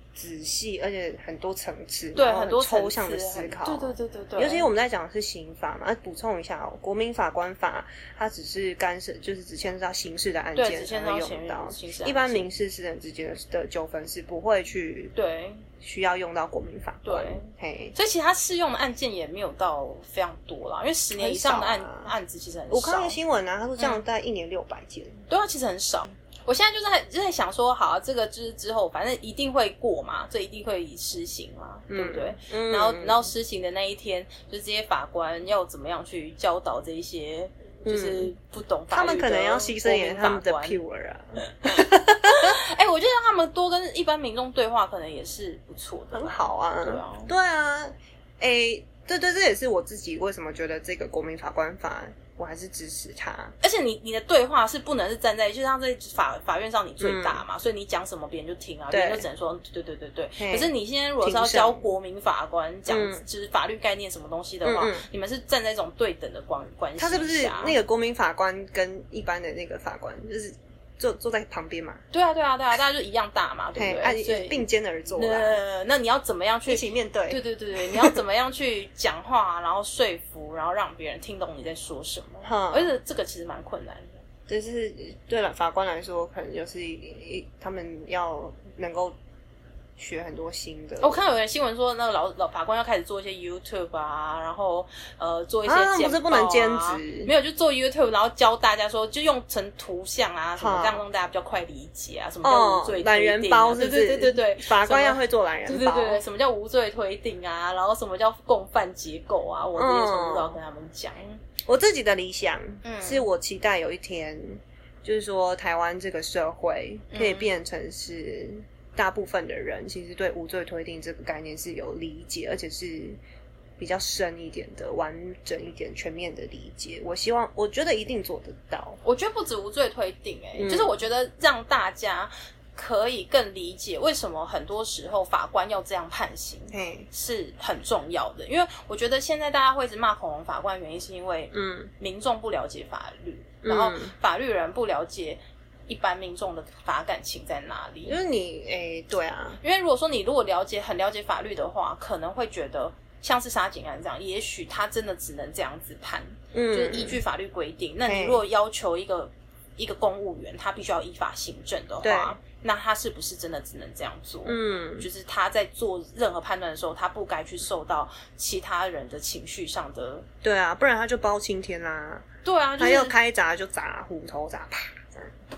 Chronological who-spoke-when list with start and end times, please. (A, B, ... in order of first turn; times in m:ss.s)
0:00.2-0:15.1 A
0:02.2-0:04.7 B
0:10.6-0:12.5 B
0:15.2-0:15.7 B
0:15.8-0:18.0 A
0:17.0-0:23.2 B
0:21.1-0:22.1 A
0:22.7-0:25.2 A
0:23.8-0:24.0 B
0:25.3-0:40.8 B
0:31.9-0:33.3 A
0:37.8-0:38.3 A
0:38.9-0:42.6 A
0:41.6-0:47.3 B
0:46.1-0:53.5 A
0:53.6-1:07.8 B
0:57.0-0:57.4 A
0:58.9-0:59.3 A
1:00.4-1:01.9 A
1:02.9-1:03.2 A
1:04.6-1:05.0 A
1:07.0-1:12.0 A
1:12.1-1:14.6 B
1:13.8-1:15.6 A
1:15.2-1:24.2 B
1:16.7-1:18.2 A
1:22.4-1:23.0 A
1:24.5-1:29.2 A
1:30.0-1:31.2 A
1:31.0-1:51.4 B
1:35.6-1:37.3 A
1:40.6-1:41.0 A
1:42.4-1:46.2 A
1:49.8-1:50.6 A
1:51.6-2:03.2 A
1:52.8-1:53.3 B
1:57.1-1:57.5 B
2:03.8-2:09.0 A
2:09.0-2:28.2 B
2:10.6-2:10.9 A
2:16.7-2:17.1 A
2:21.5-2:21.9 A
2:23.6-2:24.1 A
2:28.1-2:29.6 A
2:29.6-2:50.3 B
2:36.5-2:37.2 A
2:38.1-2:38.4 A
2:42.0-2:42.4 A
2:44.5-2:45.1 A
2:50.4-2:55.3 A
2:52.4-2:53.2 B